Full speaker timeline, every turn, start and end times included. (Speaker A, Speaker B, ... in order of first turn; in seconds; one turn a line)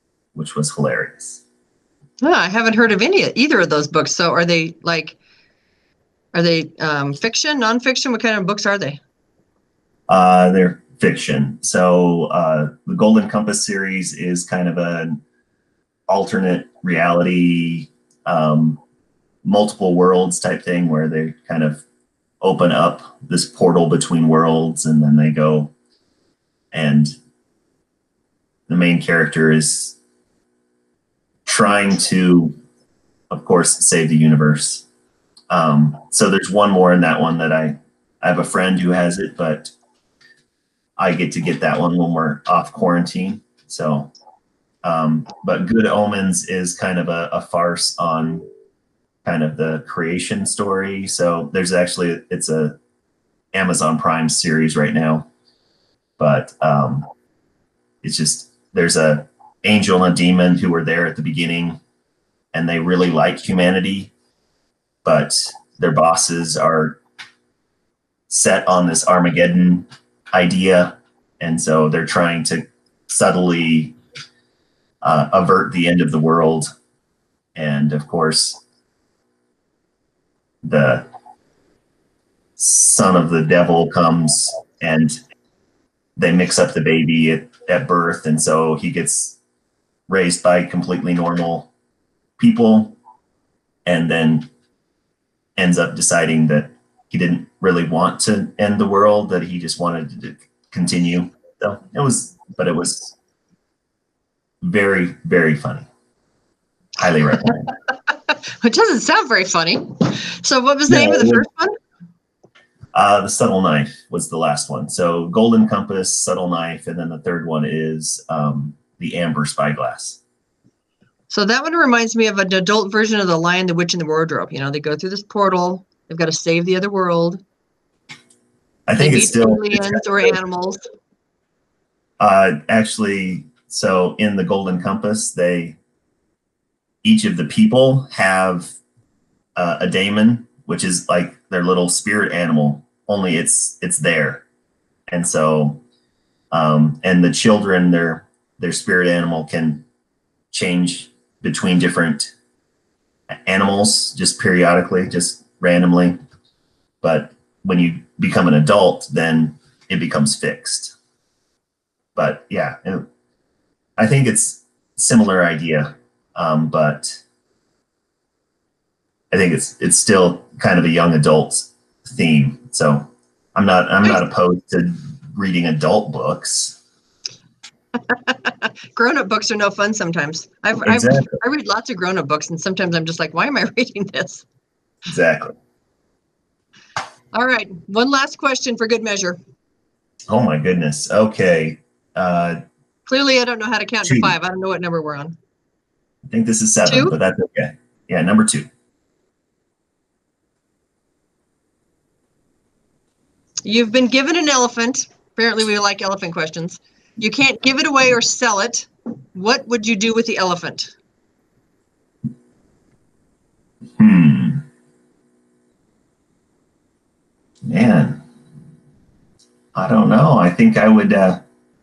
Speaker A: 0.3-1.4
Speaker B: 2.2-5.2
Speaker B: 6.3-9.0
Speaker A: 10.1-15.2
Speaker A: 16.1-18.8
Speaker A: 19.4-21.8
Speaker A: 22.4-25.7
Speaker A: 26.7-27.1
Speaker A: 28.7-30.0
Speaker A: 31.5-32.5
Speaker A: 33.3-34.9
Speaker A: 35.5-39.7
Speaker A: 41.0-44.1
Speaker A: 44.8-48.5
Speaker A: 49.2-52.8
Speaker A: 53.5-55.3
Speaker A: 56.2-57.1
Speaker A: 58.0-61.8
Speaker A: 62.5-64.1
Speaker A: 65.0-67.0
Speaker A: 68.3-74.0
Speaker A: 75.0-76.7
Speaker A: 77.6-78.6
Speaker A: 80.6-81.1
Speaker A: 82.6-85.2
Speaker A: 86.2-89.4
Speaker A: 90.1-91.7
Speaker A: 92.4-93.0
Speaker A: 93.9-94.5
Speaker A: 95.6-103.2
Speaker A: 104.6-105.9
Speaker A: 107.0-107.7
Speaker B: 108.3-111.7
Speaker A: 110.9-111.5
Speaker A: 112.9-120.2
Speaker B: 121.3-127.4
Speaker A: 128.9-130.3
Speaker B: 129.0-130.8
Speaker A: 132.2-135.8
Speaker A: 137.0-138.8
Speaker A: 139.6-144.4
Speaker A: 145.1-145.8
Speaker A: 146.5-149.8
Speaker A: 150.5-152.3
Speaker A: 153.5-156.2
Speaker A: 157.0-161.0
Speaker A: 162.1-163.1
Speaker A: 164.0-167.2
Speaker A: 169.3-176.8
Speaker B: 178.1-184.4
Speaker A: 180.8-181.4
Speaker A: 185.1-185.5
Speaker B: 187.3-189.4
Speaker A: 190.3-192.6
Speaker B: 193.1-195.4
Speaker A: 194.0-194.3
Speaker A: 196.3-198.7
Speaker B: 196.9-197.1
Speaker B: 203.6-210.9
Speaker A: 214.0-214.6
Speaker A: 217.7-218.2
Speaker A: 219.7-221.4